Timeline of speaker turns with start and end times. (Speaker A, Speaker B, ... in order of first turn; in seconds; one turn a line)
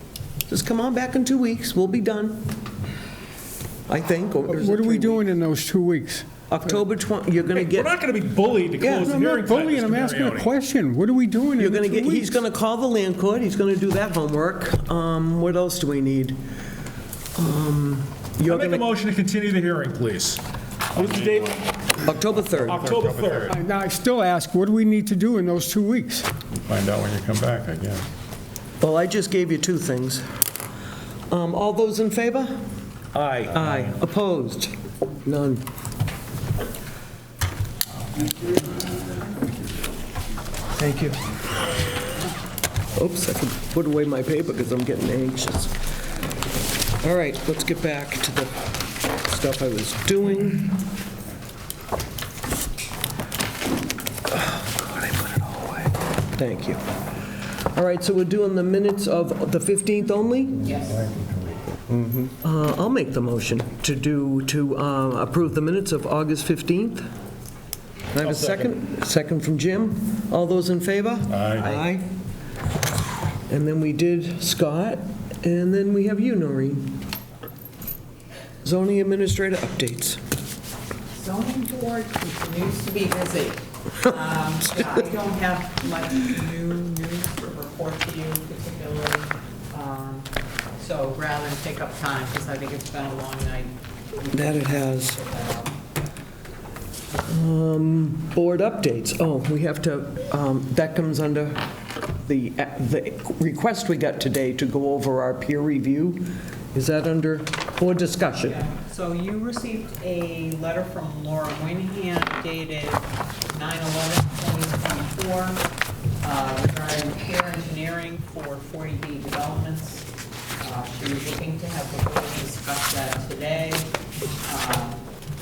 Speaker A: 0.5-2.6
Speaker A: 3.9-5.2
Speaker B: 4.5-6.3
Speaker A: 6.5-7.9
Speaker C: 7.5-10.5
Speaker A: 8.8-9.1
Speaker B: 8.9-12.4
Speaker A: 11.6-16.4
Speaker A: 17.3-18.9
Speaker C: 18.4-20.4
Speaker C: 20.9-23.6
Speaker D: 20.9-23.6
Speaker A: 22.0-22.8
Speaker B: 23.5-26.3
Speaker D: 26.6-28.0
Speaker A: 28.8-30.2
Speaker A: 31.3-32.6
Speaker C: 33.1-33.8
Speaker A: 33.5-35.6
Speaker A: 40.7-41.2
Speaker A: 43.0-45.8
Speaker A: 47.0-50.8
Speaker A: 54.3-56.8
Speaker A: 57.5-60.7
Speaker E: 60.6-61.0
Speaker D: 60.7-62.2
Speaker A: 62.4-67.0
Speaker A: 68.1-72.1
Speaker C: 68.2-68.8
Speaker D: 71.3-71.7
Speaker A: 73.5-76.9
Speaker A: 78.6-80.2
Speaker E: 81.1-95.8
Speaker A: 94.3-95.2
Speaker A: 97.3-101.7
Speaker A: 102.2-108.6
Speaker E: 108.3-115.6
Speaker E: 116.2-120.1
Speaker E: 120.6-123.9
Speaker E: 124.4-125.0